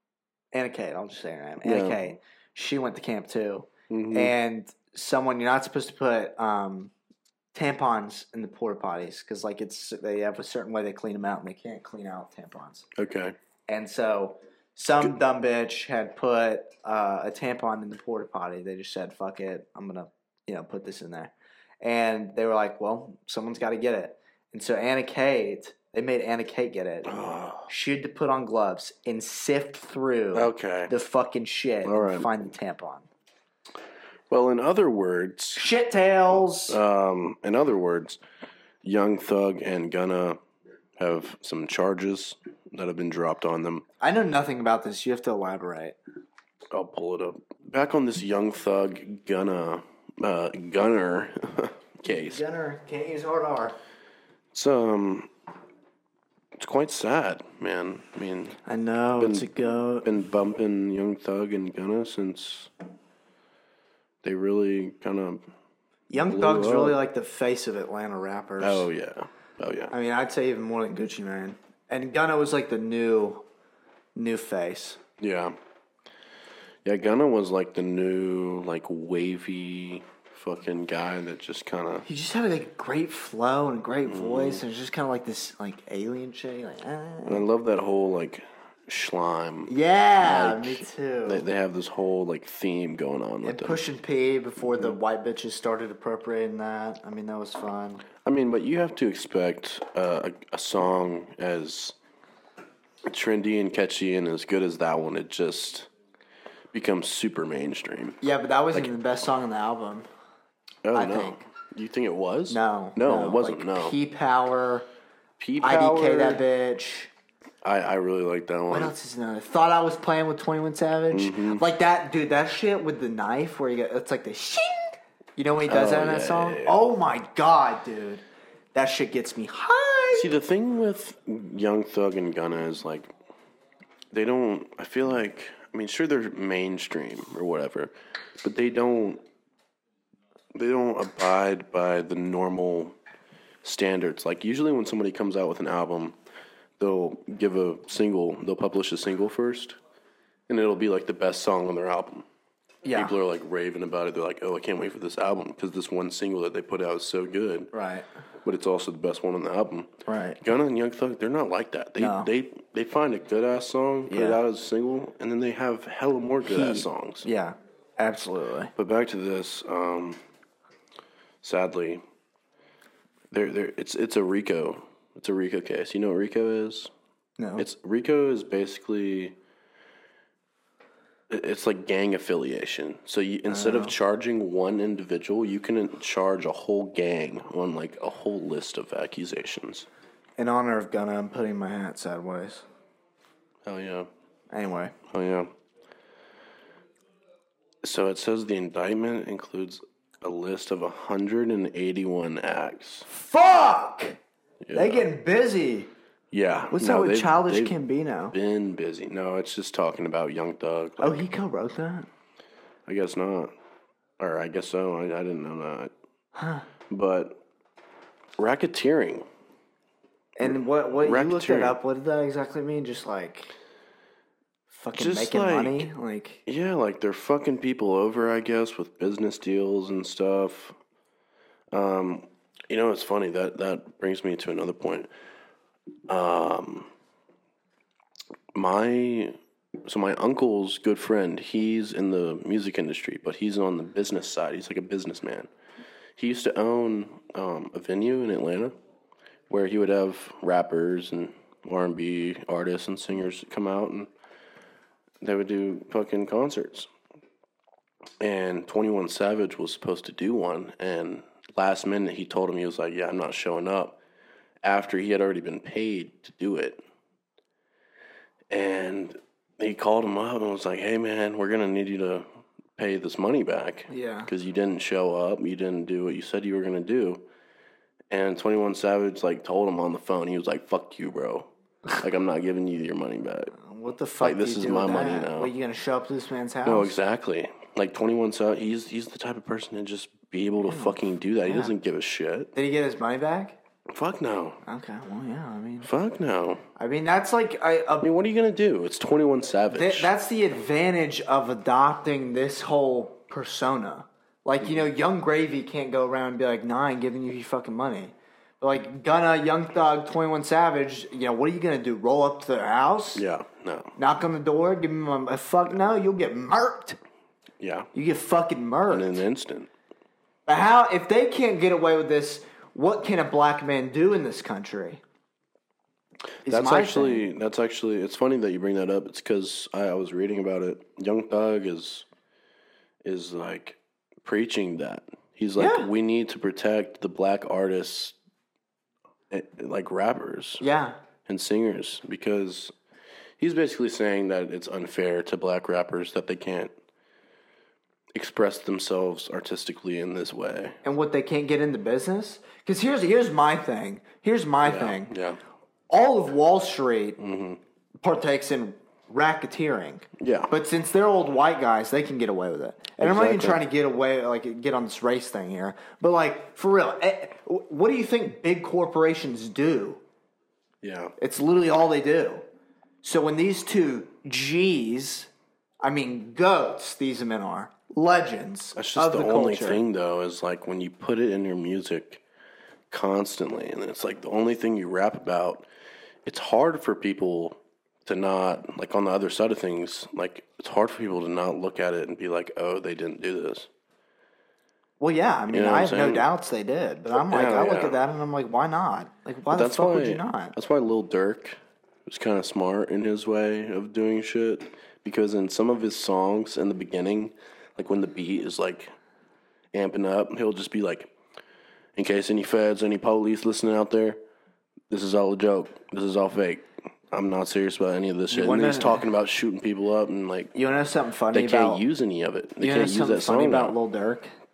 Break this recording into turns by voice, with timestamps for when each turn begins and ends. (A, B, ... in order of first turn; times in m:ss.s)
0:00.5-0:06.9 A
0:01.6-0:02.0 B
0:03.9-0:04.3 B
0:07.5-0:12.9 A
0:13.0-0:13.4 B
0:13.7-0:27.1 A
0:27.1-0:27.7 B
0:27.7-0:33.1 A
0:30.3-0:30.9 B
0:31.8-0:32.3 B
0:34.3-0:35.7 B
0:35.6-0:36.8 A
0:36.7-0:38.2 B
0:38.8-0:40.4 B
0:41.0-0:43.9 B
0:44.0-0:46.0 A
0:46.7-0:52.4 B
0:52.1-0:53.8 A
0:54.5-0:55.3 B
0:56.6-0:58.6 B
0:58.7-1:00.1 A
0:59.2-0:59.5 B
1:00.0-1:02.7 B
1:04.2-1:05.5 B
1:06.1-1:08.9 A
1:06.2-1:07.0 B
1:08.6-1:09.9 B
1:09.9-1:13.4 A
1:14.2-1:15.0 A
1:15.2-1:15.6 B
1:16.8-1:22.1 B
1:22.1-1:27.4 A
1:24.0-1:24.6 B
1:27.3-1:33.8 B
1:29.7-1:31.4 A
1:33.4-1:38.0 A
1:34.7-1:35.0 B
1:38.2-1:42.0 B
1:43.1-1:45.9 B
1:46.7-1:48.2 B
1:48.2-1:50.1 A
1:50.8-1:54.0 B
1:50.9-1:51.4 A
1:52.5-1:54.9 A
1:55.4-1:56.4 B
1:55.6-1:57.1 A
1:57.6-1:58.9 B
1:58.7-2:10.3 A
2:01.1-2:01.6 B
2:05.7-2:06.8 B
2:10.1-2:13.1 B
2:14.1-2:19.2 B
2:20.6-2:23.0 B
2:23.6-2:26.2 B
2:26.8-2:29.8 B
2:30.5-2:32.3 B
2:32.8-2:33.2 A
2:32.9-2:37.7 B
2:37.7-2:38.1 A
2:38.4-2:47.3 B
2:40.1-2:40.4 A
2:42.0-2:42.3 A
2:44.1-2:44.4 A
2:46.4-2:48.7 A
2:48.8-2:50.2 B
2:51.4-2:52.0 B
2:53.3-2:56.9 B
2:57.4-2:57.6 A
2:57.6-2:59.4 B
3:01.3-3:09.9 B
3:03.5-3:03.9 A
3:10.4-3:12.6 A
3:13.7-3:14.1 B
3:14.5-3:15.0 A
3:15.1-3:15.5 B
3:17.8-3:23.1 B
3:23.1-3:24.2 A
3:24.6-3:25.1 B
3:24.7-3:25.9 A
3:26.3-3:27.8 B
3:26.7-3:28.4 A
3:28.3-3:31.3 B
3:31.0-3:32.1 A
3:32.9-3:33.5 B
3:34.2-3:35.9 B
3:36.4-3:36.7 A
3:36.9-3:37.4 B
3:38.4-3:39.3 B
3:40.4-3:43.5 A
3:40.4-3:41.8 B
3:44.7-3:46.4 A
3:45.0-3:45.9 B
3:46.5-3:50.8 B
3:51.7-3:55.1 B
3:56.1-3:56.9 B
3:58.5-4:05.5 B
4:06.2-4:08.7 B
4:09.5-4:14.1 B
4:15.2-4:16.9 B
4:18.2-4:24.0 B
4:24.6-4:26.8 B
4:28.5-4:37.3 B
4:33.9-4:34.3 A
4:38.1-4:43.5 B
4:43.6-4:46.9 A
4:44.2-4:45.5 B
4:46.6-4:52.5 B
4:50.7-4:51.0 A
4:52.6-4:53.6 A
4:53.9-4:54.6 B
4:54.6-4:55.9 A
4:55.8-4:56.6 B
4:56.8-4:58.1 A
4:58.0-5:00.1 B
4:59.7-5:13.2 A
5:13.2-5:13.9 B
5:14.0-5:17.0 A
5:17.6-5:17.9 B
5:17.9-5:19.2 A
5:18.9-5:19.7 B
5:20.5-5:25.0 A
5:26.4-5:32.1 B
5:26.5-5:27.3 A
5:33.0-5:38.2 B
5:35.6-5:35.9 A
5:39.3-5:40.6 B
5:40.6-5:41.0 A
5:41.3-5:42.7 B
5:43.4-5:46.7 B
5:48.1-5:50.8 B
5:50.8-5:55.1 A
5:54.6-5:55.4 B
5:55.9-5:57.2 A
5:57.2-5:57.6 B
5:58.0-6:10.0 A
6:00.2-6:00.5 B
6:03.0-6:03.6 B
6:10.8-6:11.1 B
6:11.2-6:12.4 A
6:13.0-6:15.3 A
6:15.8-6:19.8 A
6:18.8-6:22.2 B
6:22.9-6:25.7 B
6:26.2-6:33.7 B
6:35.0-6:40.5 A
6:35.5-6:36.3 B
6:37.2-6:38.0 B
6:39.5-6:48.9 B
6:49.7-6:51.1 B
6:52.0-6:54.2 B
6:54.9-7:00.6 B
6:58.3-6:59.1 A
7:00.6-7:01.8 A
7:01.3-7:03.8 B
7:02.6-7:04.3 A